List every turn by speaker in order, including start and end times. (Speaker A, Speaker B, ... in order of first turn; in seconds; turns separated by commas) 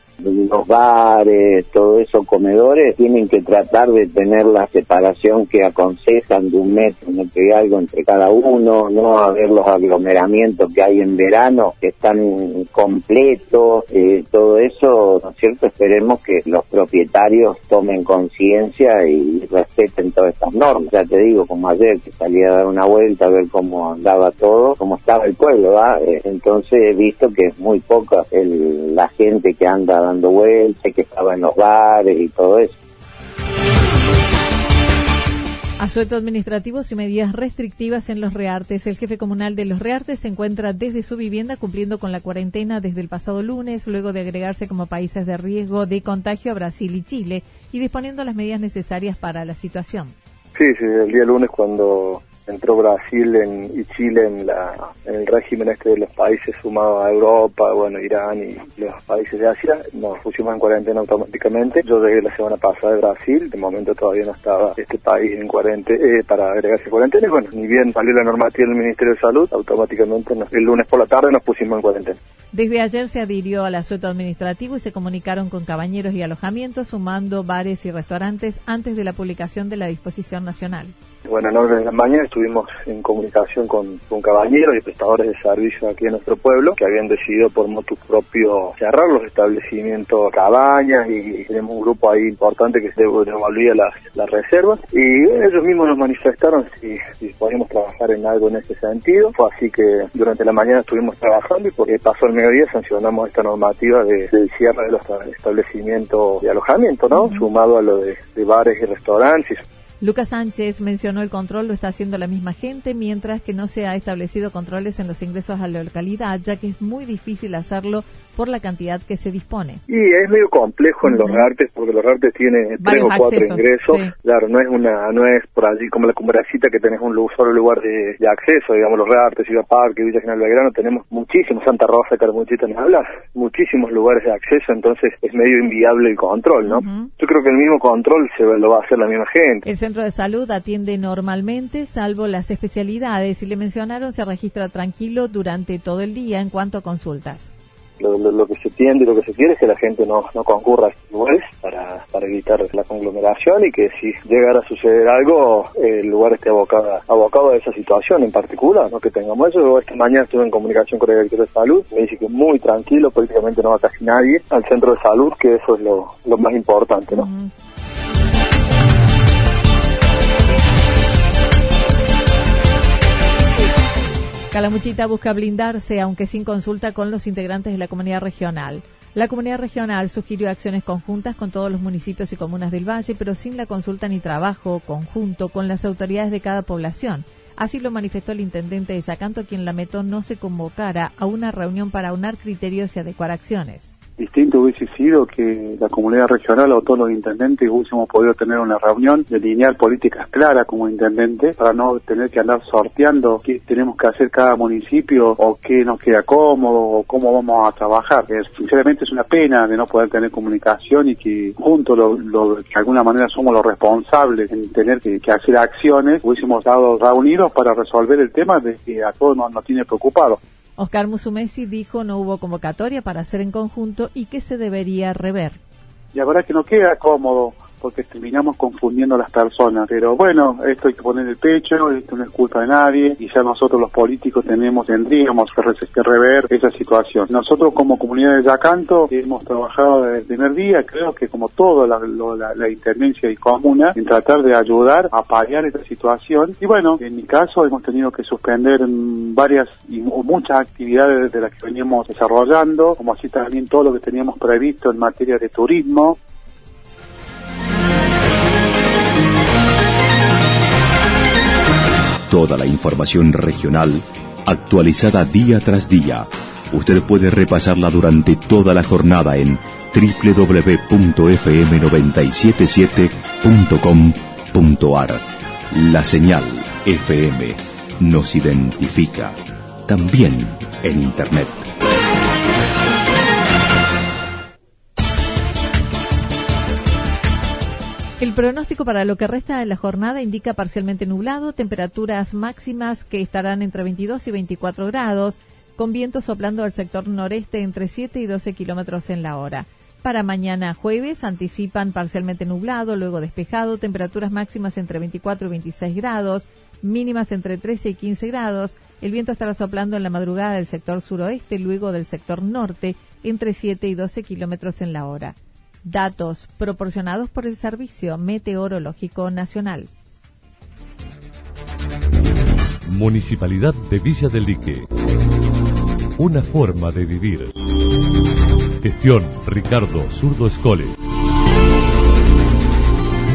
Speaker A: 0.2-32.8, Speaker B: 35.8-50.1, Speaker C: 50.6-72.2, Speaker B: 72.5-80.9, Speaker C: 81.3-109.6, Speaker B: 107.1-107.5, Speaker B: 110.0-119.8, Speaker C: 119.9-139.6, Speaker B: 121.0-121.5, Speaker B: 122.8-124.1, Speaker B: 136.6-137.1, Speaker B: 139.7-147.5, Speaker C: 148.0-167.3, Speaker B: 167.1-167.5, Speaker B: 174.5-193.9, Speaker D: 194.2-220.4, Speaker B: 220.8-225.6, Speaker D: 226.1-256.2, Speaker E: 262.3-281.7, Speaker B: 288.2-319.9, Speaker F: 322.9-324.9, Speaker F: 326.2-327.5, Speaker F: 328.8-330.9